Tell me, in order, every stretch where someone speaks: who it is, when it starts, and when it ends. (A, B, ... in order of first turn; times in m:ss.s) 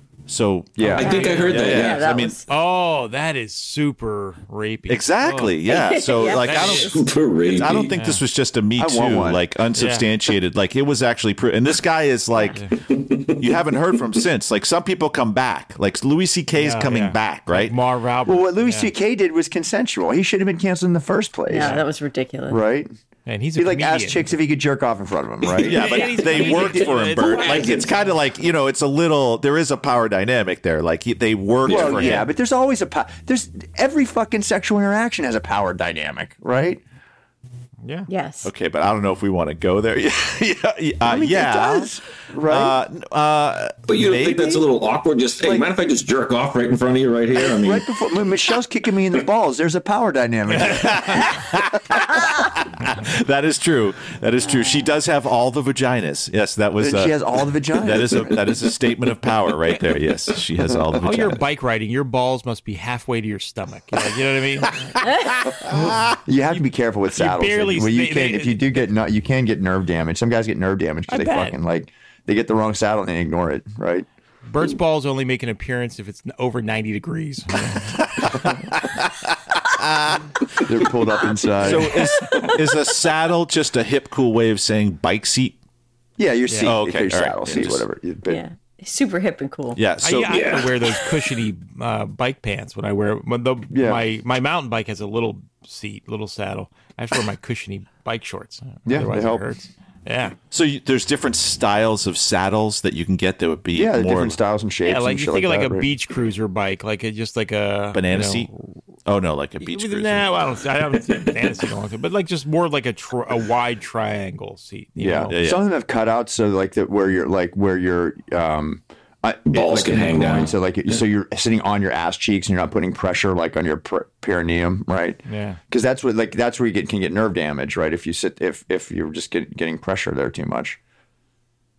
0:00.3-0:02.4 A
0:00.8-0:01.1 B
0:00.9-0:02.1 C
0:01.0-0:02.5 D
0:01.1-0:01.5 E
0:02.5-0:05.6 E
0:04.9-0:12.6 A
0:05.7-0:07.0 D
0:06.4-0:06.9 E
0:06.8-0:08.0 C
0:07.9-0:08.2 E
0:08.8-0:09.5 B
0:09.7-0:10.1 E
0:12.9-0:13.4 C
0:13.4-0:17.8 A
0:16.6-0:18.9 E
0:18.2-0:21.8 B
0:21.5-0:22.6 D
0:22.5-0:22.9 B
0:23.3-0:24.4 E
0:23.6-0:26.8 B
0:25.6-0:32.3 A
0:25.7-0:28.1 E
0:27.3-0:27.9 C
0:31.7-0:32.0 C
0:31.7-0:36.8 B
0:31.9-0:32.3 E
0:37.8-0:38.1 E
0:38.1-0:38.5 D
0:38.4-0:41.9 A
0:41.0-0:42.8 B
0:42.4-0:44.6 A
0:43.9-0:47.9 C
0:47.4-0:51.3 B
0:50.7-0:57.2 A
0:56.8-0:58.4 B
0:57.8-1:01.4 A
1:01.0-1:05.0 E
1:05.7-1:06.6 E
1:05.7-1:14.1 B
1:07.1-1:08.6 E
1:11.1-1:11.6 E
1:14.5-1:18.5 E
1:18.0-1:20.3 A
1:20.6-1:22.1 B
1:21.6-1:25.6 A
1:26.2-1:28.4 B
1:26.5-1:26.8 E
1:26.6-1:27.8 A
1:28.3-1:29.8 D
1:29.8-1:30.5 A
1:30.0-1:40.4 E
1:30.3-1:30.8 C
1:33.7-1:34.0 B
1:38.8-1:39.5 B
1:40.5-1:44.4 A
1:43.7-1:45.9 B
1:44.9-1:48.7 E
1:47.9-1:48.5 A
1:49.1-1:50.4 A
1:49.6-1:55.4 E
1:55.0-2:10.8 B
1:55.3-1:55.6 A
1:59.5-2:00.5 C
2:05.3-2:05.6 E